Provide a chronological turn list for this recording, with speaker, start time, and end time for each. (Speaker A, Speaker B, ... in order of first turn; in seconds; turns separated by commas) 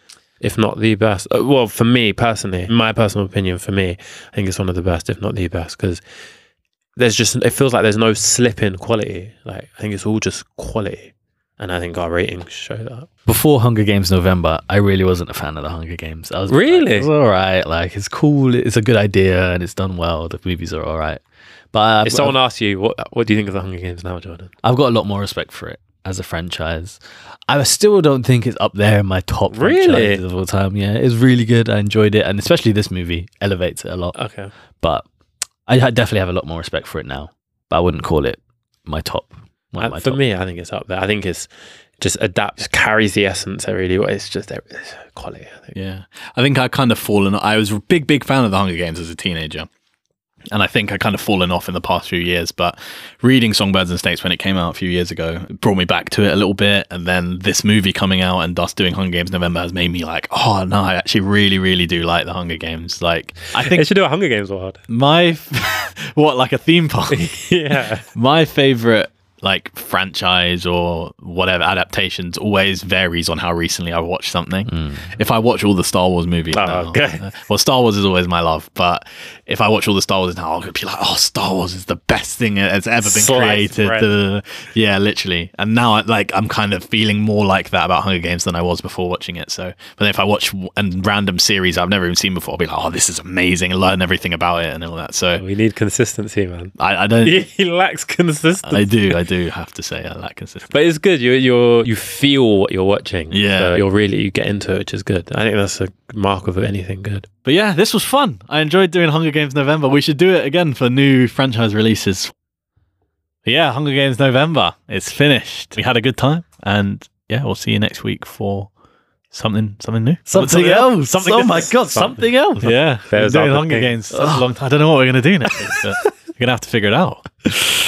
Speaker A: 0.4-6.0, Speaker A: 7.0-13.1, Speaker B: 13.3-21.2, Speaker A: 16.5-17.1, Speaker B: 21.7-22.4, Speaker A: 22.0-24.5, Speaker B: 24.6-34.1, Speaker A: 29.5-30.2, Speaker A: 34.1-34.5, Speaker B: 35.7-40.2, Speaker A: 39.8-41.5, Speaker A: 42.0-45.7, Speaker C: 45.7-49.7, Speaker C: 50.5-63.8, Speaker A: 63.5-64.8, Speaker C: 64.9-95.4, Speaker A: 67.1-68.0, Speaker B: 74.7-75.0, Speaker A: 76.5-77.3, Speaker A: 83.0-84.1, Speaker A: 95.4-99.2, Speaker C: 96.8-97.4, Speaker C: 98.6-100.7, Speaker A: 100.7-107.2, Speaker C: 103.3-103.8, Speaker C: 107.4-112.3, Speaker C: 113.4-118.7, Speaker C: 119.3-121.7, Speaker B: 120.3-122.7, Speaker A: 121.2-124.0, Speaker C: 122.6-127.3, Speaker B: 124.1-124.4